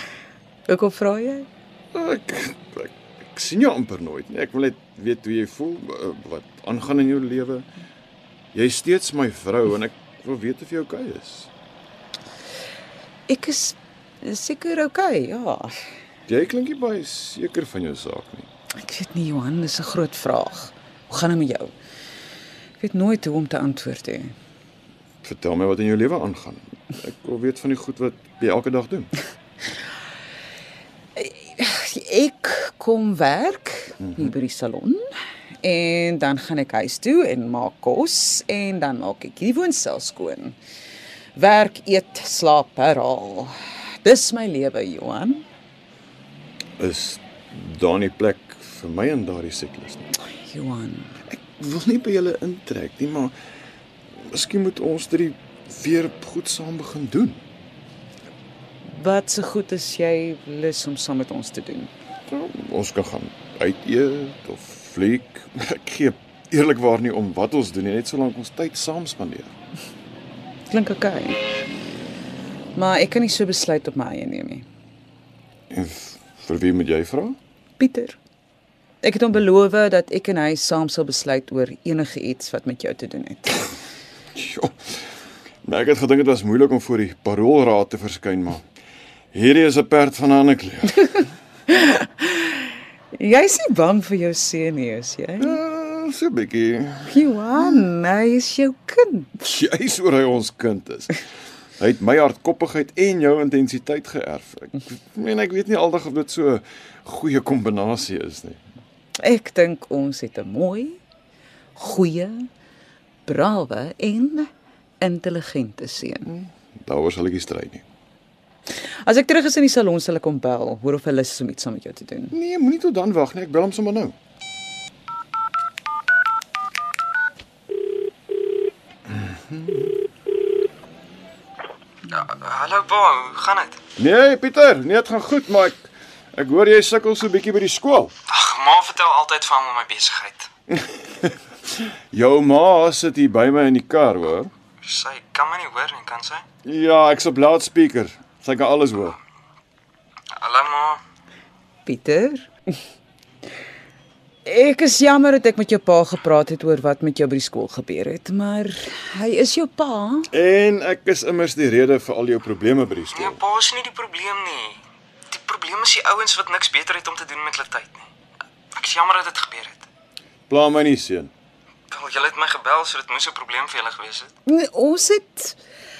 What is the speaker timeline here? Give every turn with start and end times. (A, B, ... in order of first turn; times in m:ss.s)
0:00.7-0:01.5 A
0:01.9-0:07.7 B
0:08.5-0:11.5 B
0:13.3-0:15.8 A
0:16.3-0:18.5 B
0:18.8-0:21.7 A
0:22.8-0:24.3 A
0:25.2-0:29.1 B
0:31.2-0:35.1 A
0:34.0-0:34.3 B
0:35.6-0:40.6 A
0:41.4-0:45.4 A
0:46.8-0:50.1 B
0:50.3-0:51.2 A
0:51.3-0:53.4 B
0:54.2-0:57.4 B
0:58.9-1:01.9 A
1:02.3-1:09.5 B
1:10.7-1:11.4 A
1:12.8-1:14.6 A
1:15.7-1:17.4 B
1:17.8-1:18.2 A
1:19.0-1:23.7 A
1:24.4-1:24.9 B
1:25.6-1:28.6 B
1:29.3-1:31.2 B
1:31.7-1:35.6 A
1:35.4-1:37.8 B
1:37.1-1:39.4 A
1:39.4-1:41.2 B
1:41.8-1:48.6 B
1:49.2-1:51.0 A
1:51.8-1:52.5 A
1:53.3-1:54.5 A
1:55.0-1:56.3 A
1:56.3-1:57.8 B
1:59.0-2:02.3 A
2:02.3-2:04.1 B
2:09.1-2:09.9 B
2:12.1-2:13.8 C
2:14.0-2:18.1 B
2:18.3-2:20.5 C
2:20.7-2:21.4 B
2:22.1-2:24.5 B
2:24.8-2:26.4 C
2:26.6-2:29.2 B
2:30.3-2:31.0 C
2:31.9-2:32.5 A
2:34.4-2:40.3 A
2:40.3-2:43.4 B
2:43.1-2:48.1 C
2:48.7-2:49.9 C
2:50.5-2:51.3 B
2:51.9-2:54.3 C
2:54.5-2:55.6 A